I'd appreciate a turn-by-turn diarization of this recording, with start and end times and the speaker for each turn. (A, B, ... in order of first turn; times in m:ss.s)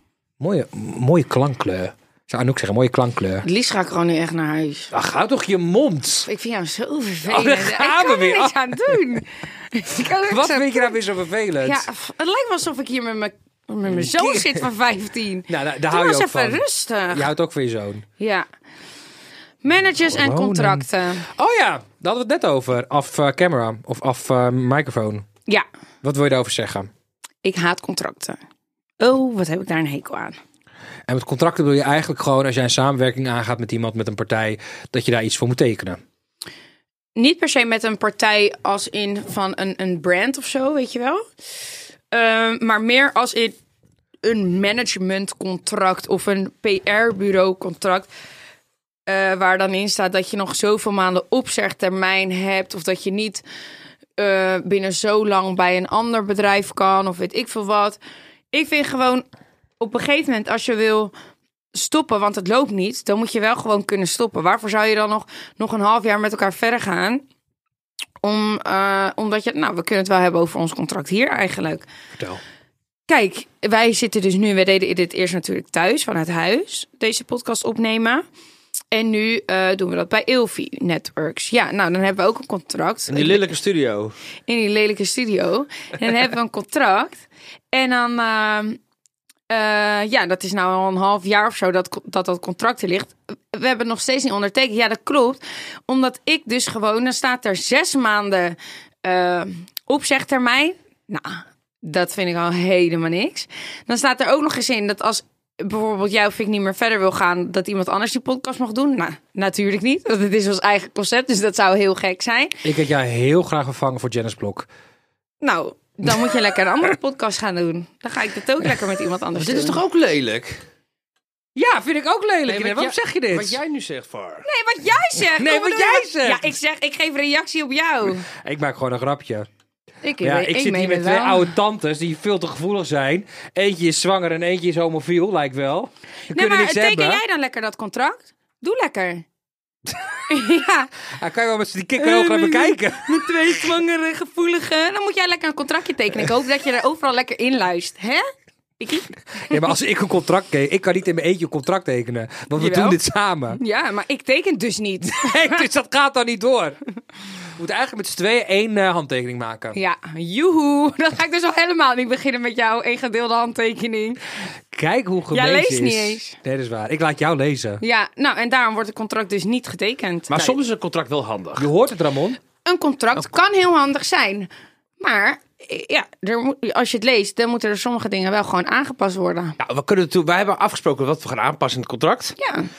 0:00.4-0:03.4 A
0:03.4-0:04.9 B
0:04.9-0:06.3 A
0:06.3-0:11.0 B
0:07.2-0:09.0 A
0:10.3-0:11.9 A
0:11.6-0:17.3 B
0:13.8-0:14.6 A
0:15.5-0:18.0 A
0:18.2-0:18.5 B
0:19.6-0:21.3 B
0:20.0-0:25.2 A
0:26.0-0:26.9 A
0:27.4-0:28.4 B
0:29.0-0:30.4 B
0:31.1-0:36.0 A
0:37.2-0:41.2 B
0:42.1-0:43.6 B
0:44.2-0:48.1 B
0:49.1-0:53.4 B
0:54.2-0:58.0 B
0:58.5-0:59.2 B
0:59.8-1:01.1 B
1:01.7-1:07.2 B
1:08.2-1:11.9 B
1:12.2-1:12.4 A
1:13.1-1:18.2 B
1:18.9-1:23.4 B
1:23.1-1:24.1 C
1:24.5-1:28.8 B
1:29.5-1:52.6 B
1:52.6-1:54.7 A
1:55.4-1:59.8 B
1:59.3-2:00.6 C
2:01.6-2:03.6 A
2:02.5-2:04.4 C
2:04.4-2:08.3 B
2:05.3-2:06.6 A
2:08.3-2:09.5 A
2:10.0-2:11.5 B
2:10.2-2:17.2 A
2:16.3-2:19.2 B
2:20.2-2:20.9 B
2:21.1-2:23.5 A
2:22.0-2:28.3 B
2:28.8-2:29.6 B
2:29.4-2:33.6 A
2:32.6-2:33.0 B
2:33.6-2:35.7 B
2:35.0-2:36.8 A
2:37.6-2:39.8 A
2:39.7-2:44.2 B
2:44.7-2:47.8 A
2:45.3-2:46.4 B
2:47.8-2:50.6 B
2:50.3-2:51.7 C
2:51.6-2:52.4 A
2:52.6-2:59.6 B
2:59.6-3:02.4 C
3:02.4-3:02.7 B